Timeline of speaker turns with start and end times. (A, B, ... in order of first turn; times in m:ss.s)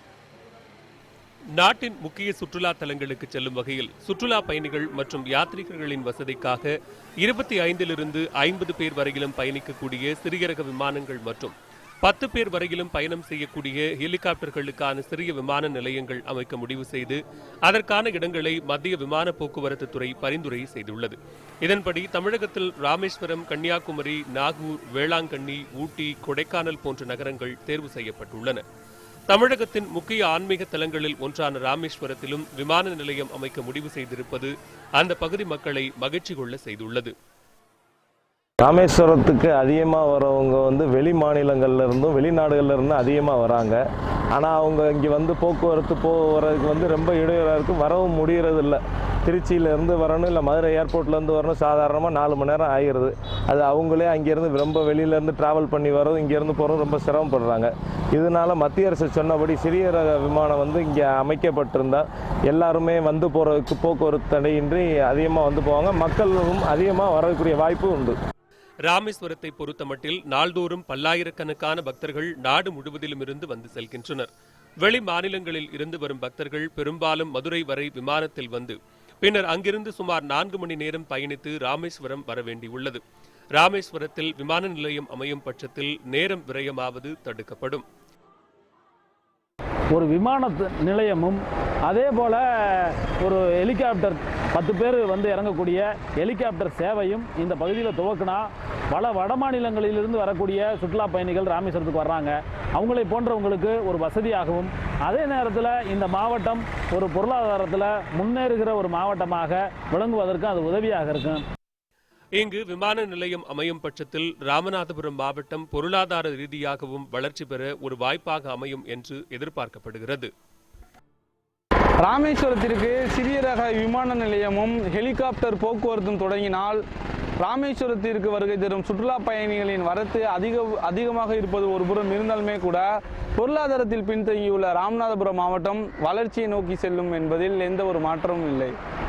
0:01.6-0:28.6 A
0:29.3-0:37.1 A
0:38.6-0:43.8 B
0:44.3-1:08.2 B
1:08.9-1:14.3 A
1:14.8-1:23.0 A
1:23.6-1:27.8 A
1:29.9-1:51.4 C
1:52.4-2:00.3 A
2:02.0-2:06.8 D
2:07.4-2:18.7 D